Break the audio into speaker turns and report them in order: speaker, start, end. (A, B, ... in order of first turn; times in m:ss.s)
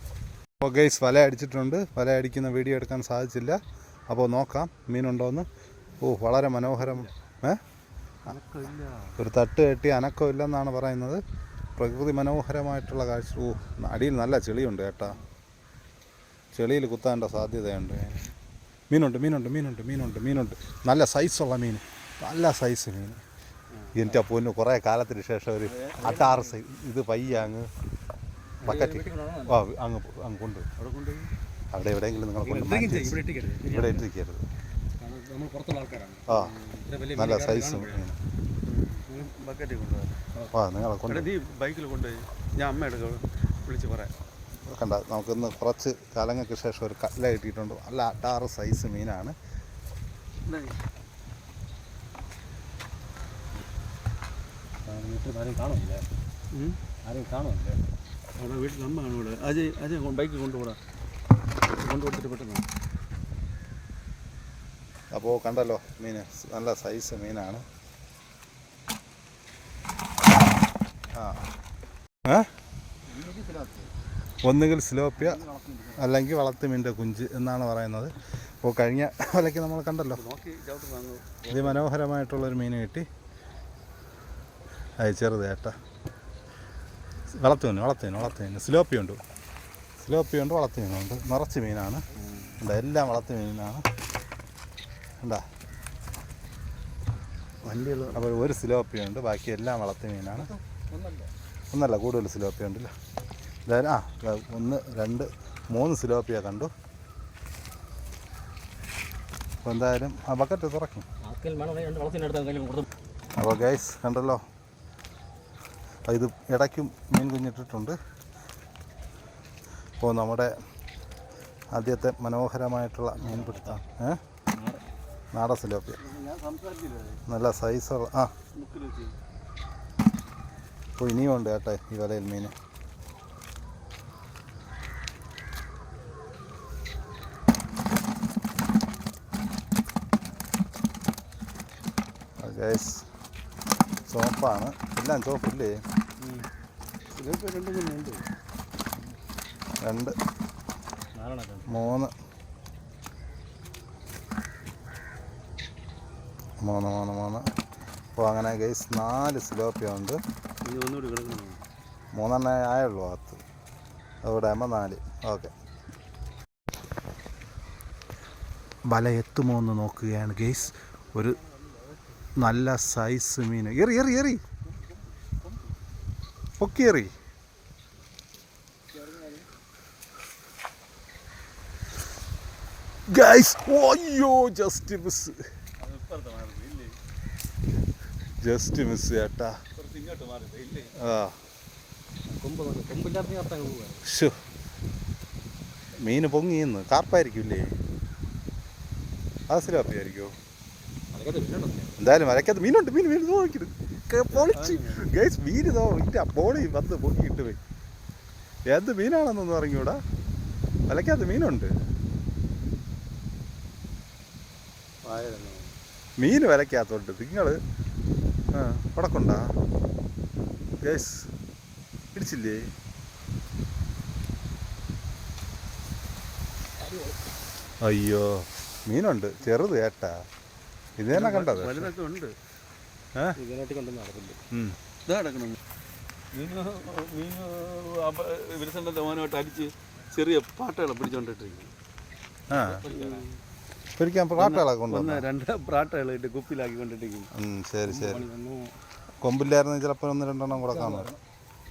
0:00.6-0:03.6 A
0:04.1-0:05.5 A
0:06.0-0:07.6 A
0:08.2-0:09.2 B
0:09.2-0:11.2 A
0:11.8-0:15.2 A
0:16.5-0:18.2 A
0:18.9-0:23.2 A
0:23.8-0:24.1 B
0:23.9-0:27.7 A
0:25.7-0:26.5 B
0:28.6-0:29.6 C
0:28.6-0:30.7 A
0:30.8-0:31.3 B
0:31.7-0:34.4 A
0:32.4-0:33.9 C
0:32.6-0:34.0 B
0:35.0-0:36.3 C
0:36.3-0:36.5 A
0:36.3-0:36.8 B
0:36.8-0:38.0 C
0:37.1-0:38.2 A
0:38.6-0:40.2 B
0:40.5-0:41.3 A
0:41.1-0:44.1 B
0:44.7-0:49.3 A
0:50.4-0:50.8 B
0:54.8-0:56.1 C
0:56.5-0:56.8 B
0:57.0-0:57.8 C
0:58.4-1:00.8 B
1:01.8-1:02.6 B
1:05.1-1:07.6 A
1:11.1-1:11.4 A
1:12.2-1:12.5 A
1:13.1-1:13.9 C
1:14.4-1:15.4 A
1:15.2-1:16.1 C
1:16.0-1:20.2 A
1:20.2-1:21.9 B
1:21.5-1:23.1 A
1:25.0-1:25.8 A
1:27.3-1:29.2 A
1:30.0-1:32.0 A
1:32.6-1:33.8 A
1:37.6-1:38.3 B
1:38.1-1:40.5 A
1:40.7-1:41.3 C
1:41.7-1:42.9 A
1:43.6-1:46.7 A
1:49.6-1:51.0 A
1:51.2-1:52.9 C
1:53.4-1:54.4 A
1:56.1-1:58.0 A
2:00.0-2:00.5 A
2:01.7-2:04.2 A
2:03.2-2:03.8 C
2:04.6-2:04.8 C
2:05.3-2:06.0 A
2:06.0-2:07.2 B
2:07.3-2:08.3 A
2:08.5-2:09.1 B
2:11.0-2:12.5 A
2:22.4-2:23.0 A
2:24.1-2:25.8 A
2:27.2-2:28.2 B
2:29.8-2:30.1 A
2:31.1-2:31.9 C
2:31.7-2:32.1 A
2:36.6-2:37.4 A
2:38.1-2:40.2 A
2:40.6-2:41.6 B
2:42.1-2:43.4 A
2:44.2-2:45.5 A
2:48.9-2:51.4 A
2:52.4-2:54.4 A
2:56.6-2:57.1 A
3:03.1-3:05.4 A
3:05.8-3:07.0 B
3:08.4-3:09.6 A
3:09.7-3:10.9 B
3:11.0-3:11.4 A
3:12.3-3:14.0 C
3:14.0-3:14.3 A
3:16.0-3:17.7 A
3:19.5-3:20.3 A
3:21.1-3:22.0 C
3:22.0-3:27.6 A
3:24.3-3:25.1 B
3:28.7-3:30.0 A
3:30.9-3:31.7 A
3:35.0-3:35.7 B
3:36.2-3:37.6 A
3:38.5-3:39.5 A
3:40.8-3:41.3 A
3:42.1-3:42.6 A
3:47.8-3:50.1 A
3:51.0-3:51.9 A
3:51.1-3:52.3 B
3:53.4-3:54.4 C
3:54.5-3:54.8 A
3:55.0-3:55.6 B
3:56.3-4:01.7 B
4:02.5-4:02.8 A
4:02.5-4:03.2 C
4:02.8-4:03.3 B
4:04.0-4:05.2 A
4:04.4-4:07.3 B
4:07.3-4:08.2 A
4:07.8-4:08.7 C
4:09.2-4:11.1 A
4:10.7-4:11.2 C